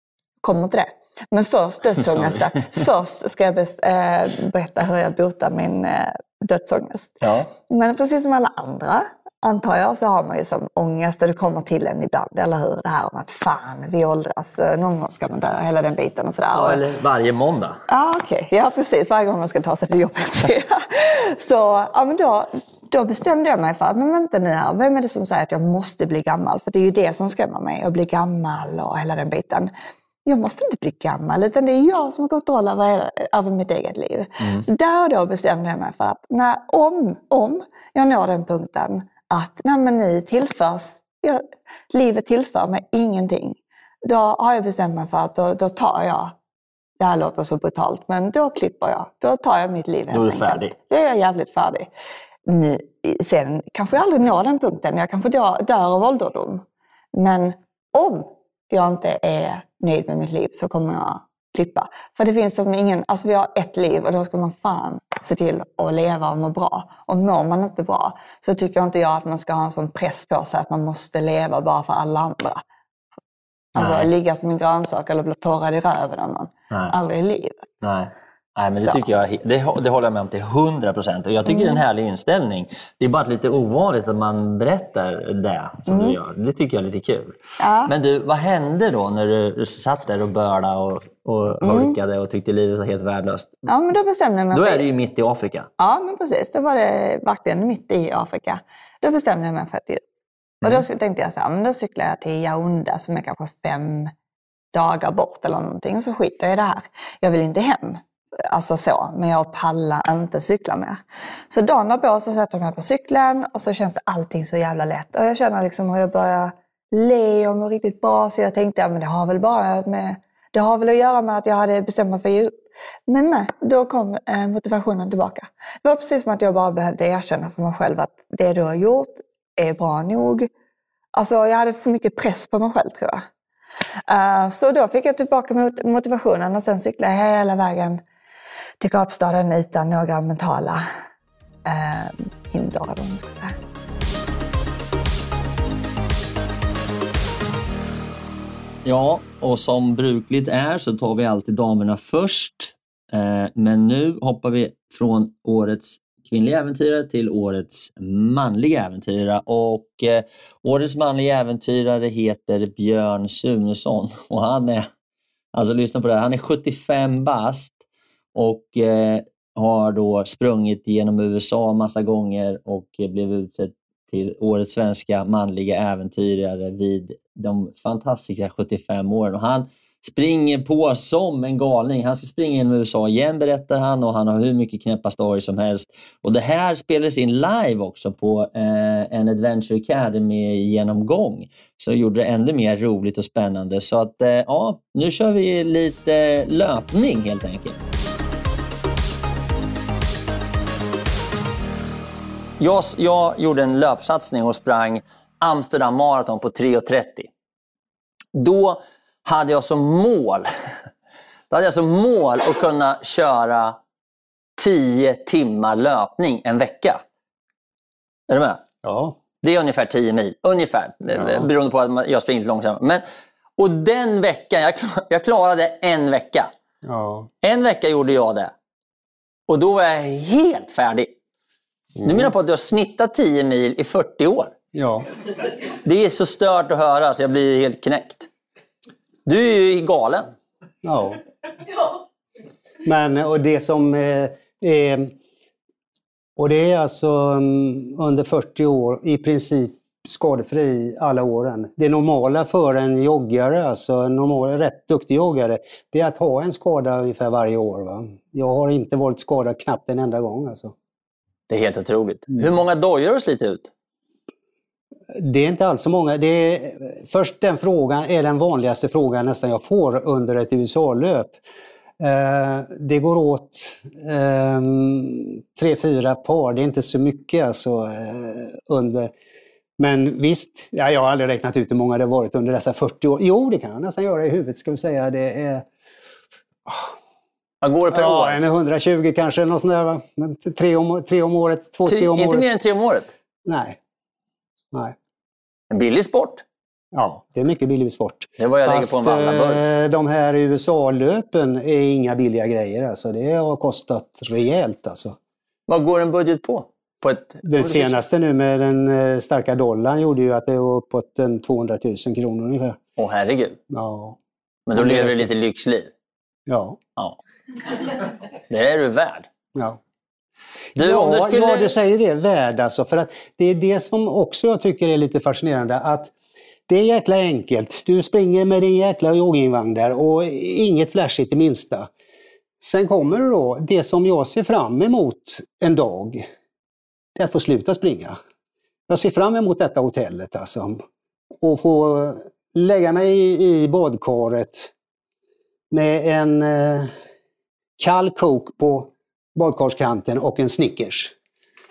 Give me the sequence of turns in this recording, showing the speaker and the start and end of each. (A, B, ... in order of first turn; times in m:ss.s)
0:00.4-0:07.2 A
0:02.0-0:02.8 B
0:07.2-0:07.5 B
0:07.7-0:16.8 A
0:16.5-0:17.8 B
0:17.9-0:29.7 A
0:30.2-0:46.3 A
0:34.4-0:34.6 B
0:47.0-0:51.9 A
0:50.1-0:50.7 B
0:52.5-0:56.6 A
0:57.2-1:12.6 A
1:13.7-1:17.7 A
1:13.8-1:14.1 B
1:17.8-1:33.5 B
1:18.7-1:19.0 A
1:21.4-1:21.8 A
1:25.9-1:26.2 A
1:27.6-1:27.9 A
1:31.6-1:31.9 A
1:33.7-1:34.8 A
1:34.5-1:35.7 B
1:35.8-1:40.0 A
1:40.6-1:44.1 A
1:44.7-2:02.5 A
2:03.1-2:10.5 A
2:11.1-2:13.2 A
2:14.1-2:18.0 A
2:18.8-2:20.8 A
2:21.6-2:23.5 A
2:28.8-2:44.9 B
2:45.5-2:47.8 B
2:48.3-3:17.9 B
3:22.6-3:27.3 B
3:28.3-3:30.5 B
3:31.5-3:33.8 B
3:34.6-3:37.0 B
3:38.3-3:38.6 B
3:38.8-3:39.2 C
3:39.4-3:43.0 B
3:41.1-3:41.5 C
3:43.6-3:46.5 B
3:46.8-3:47.3 C
3:47.4-3:48.5 B
3:49.5-3:51.1 B
3:52.0-3:52.3 C
3:52.0-3:54.5 B
3:54.7-3:55.0 C
3:55.8-3:58.3 B
3:59.2-4:00.3 B
4:00.8-4:01.2 C
4:02.8-4:05.1 C
4:06.4-4:20.7 C
4:21.5-4:23.7 B
4:25.2-4:31.4 C
4:32.0-4:39.1 C
4:39.8-4:45.6 C
4:47.6-4:48.4 B
4:47.9-4:52.5 C
4:51.8-4:53.1 B
4:53.4-4:53.8 C
4:55.7-4:56.4 B
4:56.9-5:05.2 C
4:58.4-4:59.6 B
5:05.7-5:08.0 B
5:07.4-5:12.8 C
5:13.0-5:13.6 B
5:13.7-5:14.2 C
5:14.7-5:15.9 B
5:14.7-5:15.3 C
5:16.5-5:16.8 C
5:18.5-5:19.3 B
5:20.7-5:26.1 C
5:20.8-5:21.7 B
5:26.7-5:31.9 C
5:32.6-5:36.2 C
5:37.2-5:38.2 C
5:38.9-5:40.8 C
5:41.4-5:44.7 C
5:45.7-5:46.9 C
5:47.8-5:51.1 C